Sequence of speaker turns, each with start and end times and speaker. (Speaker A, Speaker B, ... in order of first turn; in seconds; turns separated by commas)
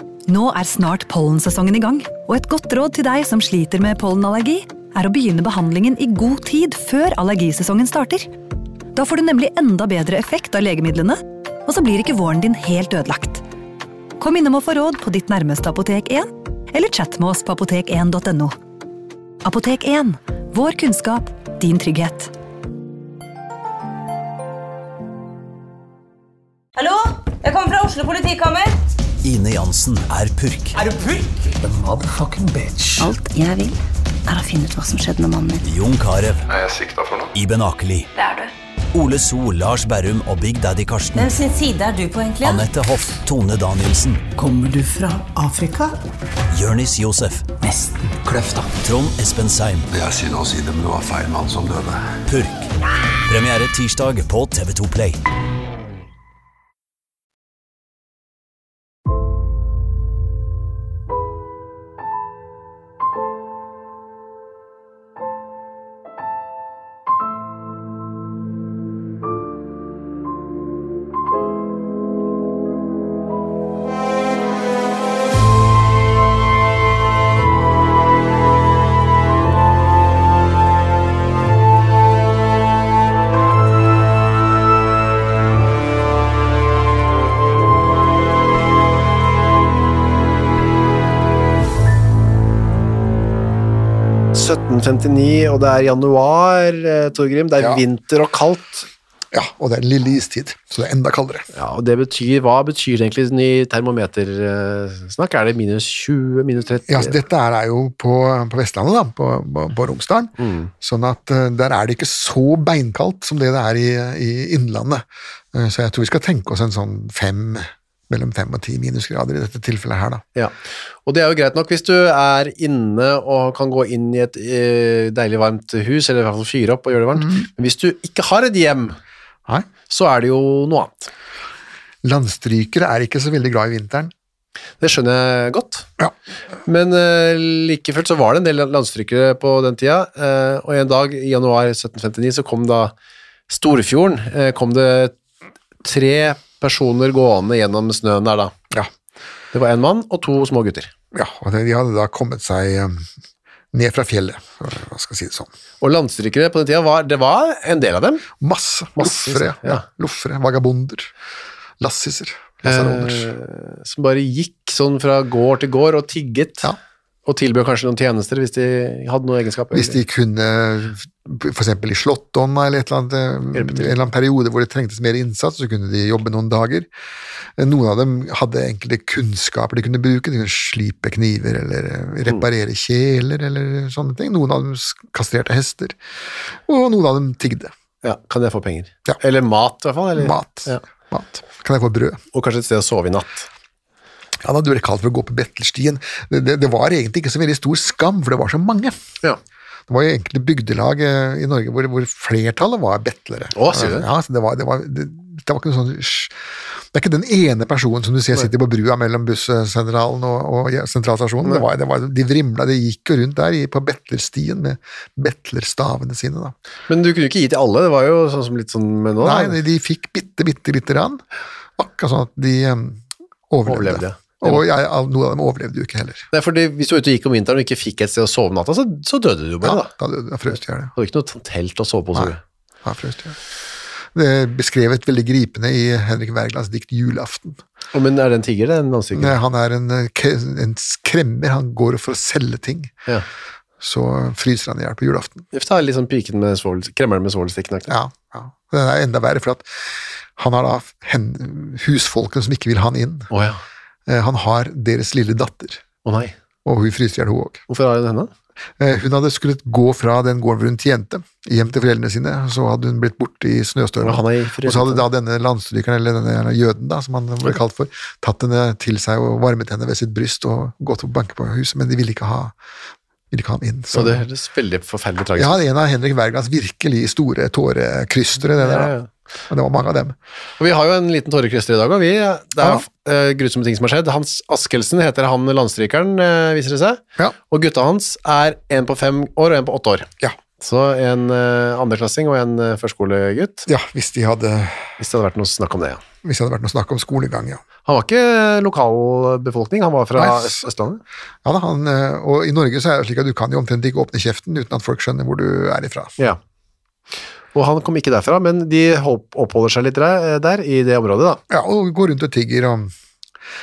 Speaker A: 0.3-8.3, Speaker A: 8.9-13.4, Speaker A: 14.2-18.6, Speaker A: 19.4-22.3, Speaker B: 26.8-28.8, Speaker C: 29.2-30.8, Speaker B: 31.0-31.5, Speaker D: 31.6-33.1, Speaker E: 33.0-35.6, Speaker C: 35.6-36.5, Speaker F: 36.5-37.3, Speaker C: 37.4-38.1, Speaker B: 38.2-38.5, Speaker C: 38.9-41.4, Speaker B: 41.1-42.7, Speaker C: 42.4-44.3, Speaker D: 44.4-46.0, Speaker C: 46.5-47.5, Speaker D: 47.6-48.8, Speaker C: 48.8-49.9, Speaker F: 49.9-52.1, Speaker C: 52.3-52.7, Speaker C: 53.3-55.2, Speaker G: 94.3-98.9, Speaker H: 99.3-101.5, Speaker G: 101.5-107.2, Speaker H: 106.9-120.2, Speaker G: 110.4-110.7, Speaker G: 121.1-129.0, Speaker H: 127.2-127.5, Speaker G: 129.9-131.1, Speaker H: 132.0-134.1, Speaker G: 134.8-135.9, Speaker G: 136.7-142.9, Speaker G: 143.5-145.1, Speaker G: 145.8-148.5, Speaker G: 149.5-150.9, Speaker H: 151.1-153.0, Speaker H: 153.7-155.5, Speaker G: 155.8-158.3, Speaker H: 158.4-161.1, Speaker G: 159.0-159.8, Speaker H: 161.8-163.3, Speaker G: 162.6-166.7, Speaker G: 167.3-170.0, Speaker H: 169.7-176.9, Speaker G: 173.5-174.0, Speaker H: 177.6-186.0, Speaker H: 186.5-187.7, Speaker G: 188.0-190.8, Speaker H: 190.2-192.2, Speaker G: 192.3-193.5, Speaker H: 194.4-199.0, Speaker H: 199.9-216.6, Speaker G: 203.6-204.1, Speaker G: 216.9-219.6, Speaker H: 219.2-221.2, Speaker H: 221.8-226.3, Speaker G: 223.7-224.6, Speaker G: 226.3-229.9, Speaker H: 229.6-230.9, Speaker G: 231.0-232.4, Speaker H: 232.8-233.4, Speaker H: 234.1-237.6, Speaker G: 237.9-239.4, Speaker H: 239.1-242.9, Speaker H: 243.8-245.4, Speaker G: 245.5-247.9, Speaker H: 247.9-253.3, Speaker G: 253.3-253.6, Speaker H: 254.1-255.8, Speaker G: 256.1-256.3, Speaker H: 256.6-257.6, Speaker G: 257.7-258.3, Speaker H: 258.8-272.6, Speaker G: 264.0-265.0, Speaker H: 273.3-274.2, Speaker G: 273.9-275.6, Speaker H: 275.4-278.9, Speaker G: 278.6-279.1, Speaker H: 279.5-280.2, Speaker G: 280.6-290.1, Speaker G: 290.6-293.7, Speaker H: 293.7-294.9, Speaker G: 295.0-296.0, Speaker H: 296.2-297.6, Speaker G: 297.9-301.0, Speaker H: 300.2-300.6, Speaker H: 301.4-306.2, Speaker G: 307.5-311.4, Speaker H: 311.5-312.9